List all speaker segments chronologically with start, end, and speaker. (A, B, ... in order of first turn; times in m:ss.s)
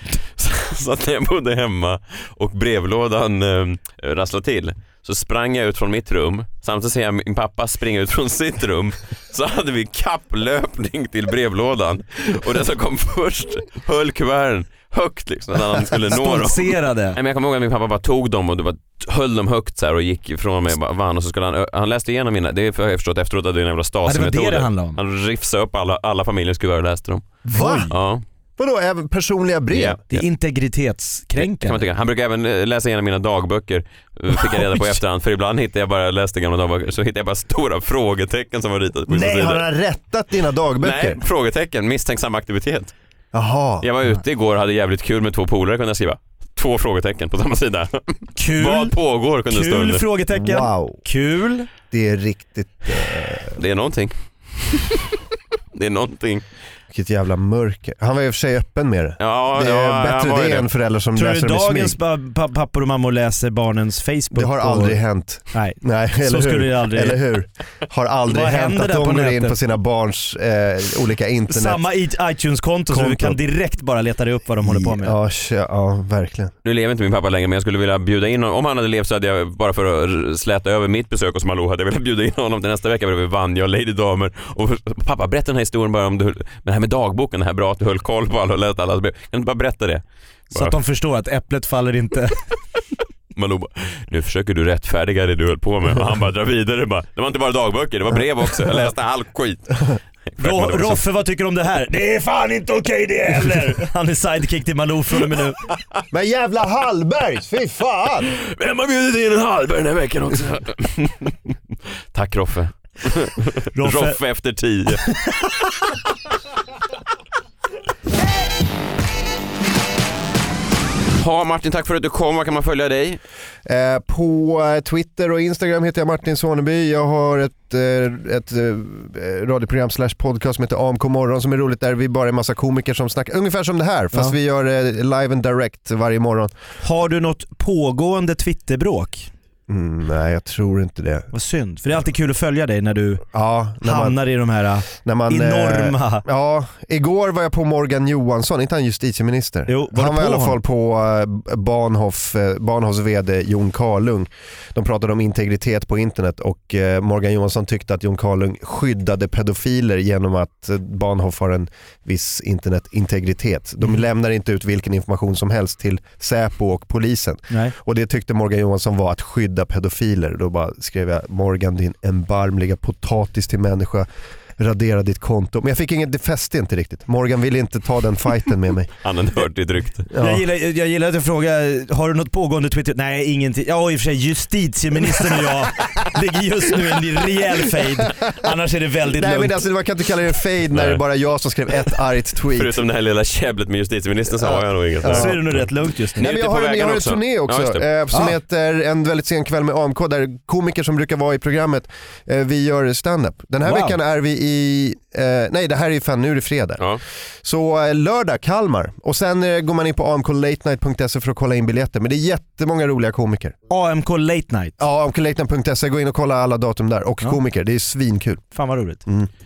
0:00.3-0:27.2 A
0:16.1-0:17.2 B
0:24.0-0:25.0 B
0:27.5-0:27.9 B
0:27.5-0:27.9 C
0:27.9-0:28.2 A
0:28.6-0:30.0 C
0:29.7-0:30.2 A
0:30.1-0:31.9 B
0:31.4-0:39.6 A
0:34.3-0:34.9 B
0:39.1-0:41.2 C
0:40.8-0:42.9 A
0:43.3-0:43.9 C
0:43.8-0:50.0 A
0:48.4-0:48.9 B
0:49.5-0:51.7 B
0:50.3-0:51.0 C
0:51.9-0:53.6 C
0:53.5-0:55.0 A
0:55.7-0:56.4 A
0:56.9-1:02.0 C
0:59.2-1:00.7 A
1:01.2-1:05.0 B
1:04.3-1:11.8 C
1:05.5-1:07.2 B
1:08.3-1:09.6 B
1:11.5-1:15.2 B
1:12.9-1:13.4 C
1:14.6-1:16.5 C
1:16.6-1:30.7 A
1:30.5-1:32.4 B
1:33.4-1:41.0 A
1:40.4-1:45.6 B
1:46.1-1:48.3 C
1:48.3-1:51.3 A
1:52.1-1:55.2 A
1:53.8-1:54.2 B
2:01.2-2:03.2 A
2:03.7-2:16.5 C
2:16.8-2:19.3 B
2:19.7-2:21.3 C
2:21.3-2:23.2 B
2:23.3-2:24.2 C
2:23.8-2:26.2 B
2:24.9-2:59.0 C
2:29.7-2:30.6 B
2:47.5-2:47.8 B
2:59.0-3:00.1 A
3:00.1-3:00.4 C
3:00.2-3:09.6 B
3:09.1-3:12.8 C
3:10.7-3:11.0 A
3:12.5-3:17.8 A
3:14.4-3:15.4 C
3:15.1-3:16.2 B
3:16.2-3:26.8 C
3:23.6-3:24.0 B
3:27.4-3:33.6 C
3:33.7-3:34.8 B
3:34.8-3:38.5 C
3:38.5-3:39.0 B